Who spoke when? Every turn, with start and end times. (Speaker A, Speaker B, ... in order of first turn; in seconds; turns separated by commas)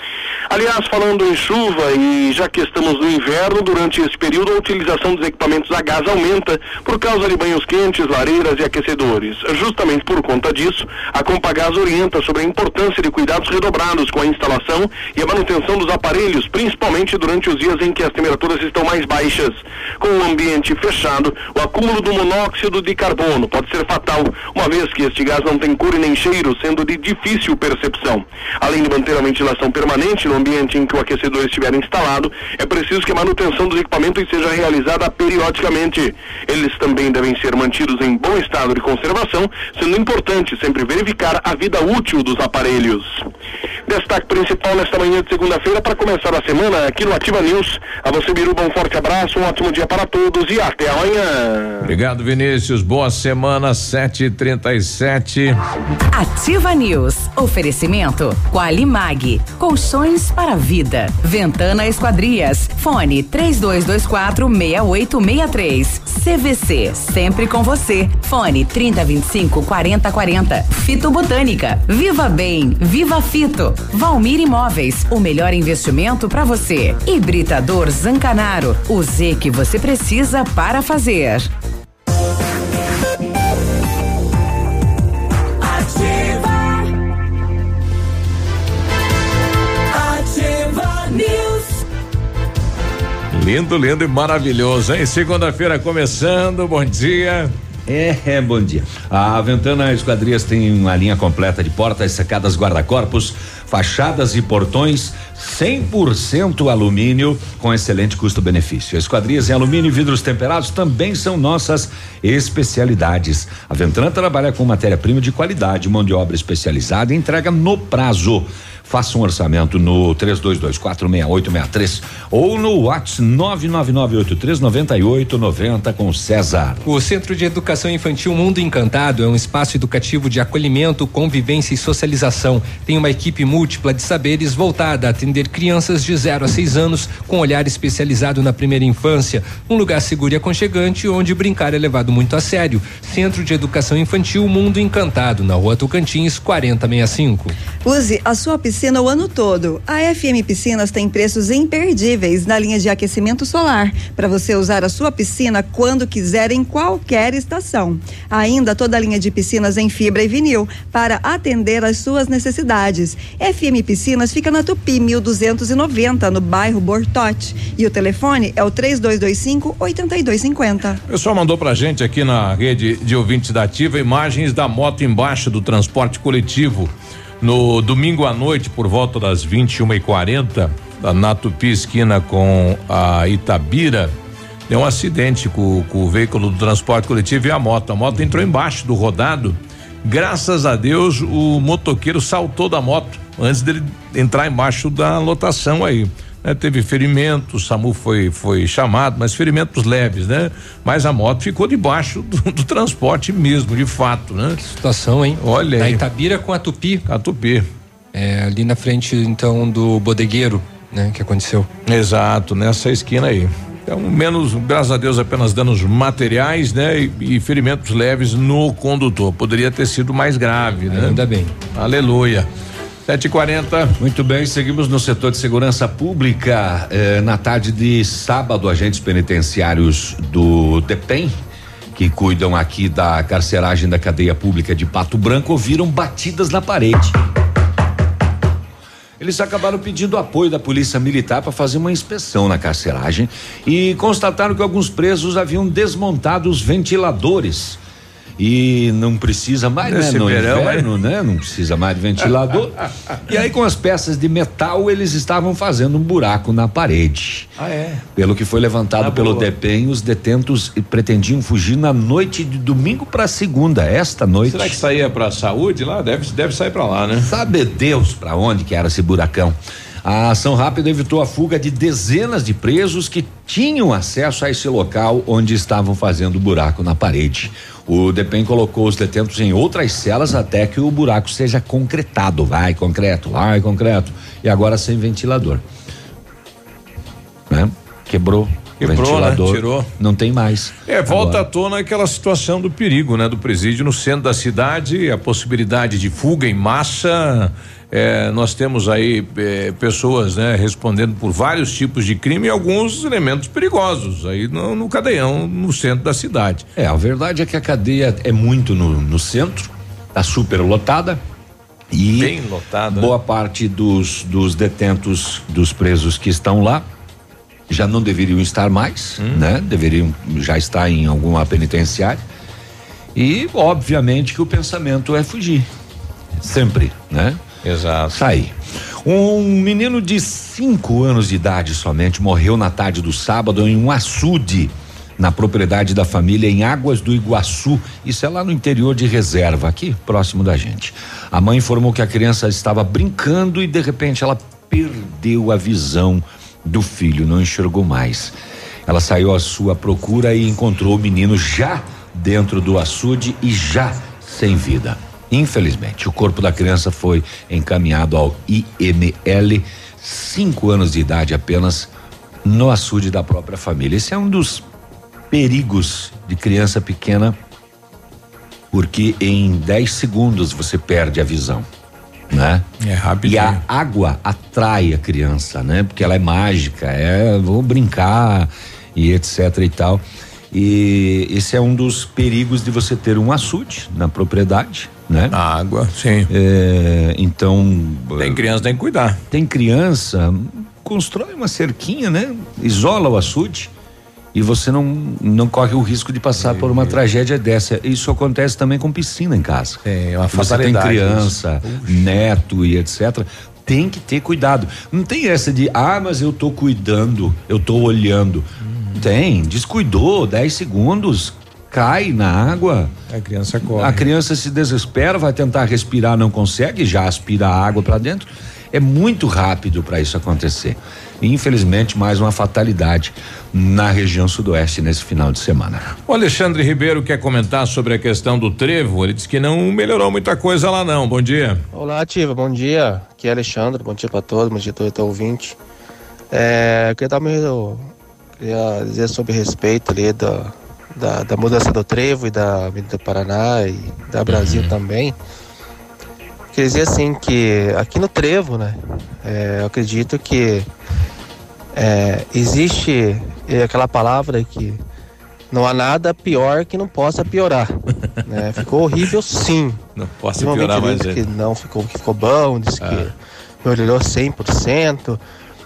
Speaker A: 0.5-43.2, Speaker A: 43.9-51.9, Speaker B: 51.8-55.6, Speaker C: 56.1-81.5, Speaker B: 93.3-97.5, Speaker D: 97.9-126.8, Speaker E: 126.8-147.6, Speaker F: 147.8-171.0, Speaker B: 171.1-184.1, Speaker B: 184.7-204.6, Speaker E: 204.6-207.0, Speaker B: 205.4-206.0, Speaker B: 207.1-207.7, Speaker E: 208.1-211.7, Speaker B: 211.9-221.2, Speaker E: 220.9-221.5, Speaker B: 221.8-222.5, Speaker B: 223.1-223.9, Speaker D: 224.0-231.3, Speaker D: 231.9-237.2, Speaker D: 239.2-247.8, Speaker D: 248.4-252.8, Speaker B: 249.8-250.9, Speaker D: 253.3-257.5, Speaker B: 257.6-258.0, Speaker D: 258.2-264.8, Speaker B: 259.0-259.5, Speaker B: 264.5-267.3, Speaker D: 267.2-285.6, Speaker D: 287.5-291.5, Speaker B: 288.8-289.9, Speaker B: 290.9-306.6, Speaker D: 306.8-311.2, Speaker D: 311.9-312.4, Speaker B: 312.2-313.1, Speaker D: 312.9-316.9, Speaker D: 317.7-322.2, Speaker B: 319.2-319.4, Speaker D: 323.1-325.7, Speaker D: 326.4-327.4, Speaker B: 327.6-328.2, Speaker D: 328.1-348.3, Speaker D: 348.9-361.9, Speaker D: 362.4-364.6, Speaker D: 365.3-367.4, Speaker D: 368.7-371.7, Speaker D: 372.3-372.7, Speaker B: 372.8-373.6, Speaker D: 373.2-385.4, Speaker B: 385.3-386.3, Speaker D: 386.3-388.4, Speaker B: 388.2-389.2, Speaker D: 389.3-393.7, Speaker D: 394.3-399.8, Speaker B: 396.4-397.0, Speaker B: 399.9-402.1, Speaker D: 400.3-412.9, Speaker B: 408.7-409.1, Speaker B: 413.1-414.1, Speaker D: 413.7-425.9, Speaker B: 426.1-431.6, Speaker G: 431.7-435.6, Speaker G: 436.3-445.1, Speaker B: 444.3-444.7, Speaker G: 446.5-450.7, Speaker G: 451.8-454.8, Speaker G: 455.5-457.7, Speaker G: 458.3-459.8, Speaker B: 460.0-461.2, Speaker G: 460.4-465.2, Speaker B: 462.8-463.1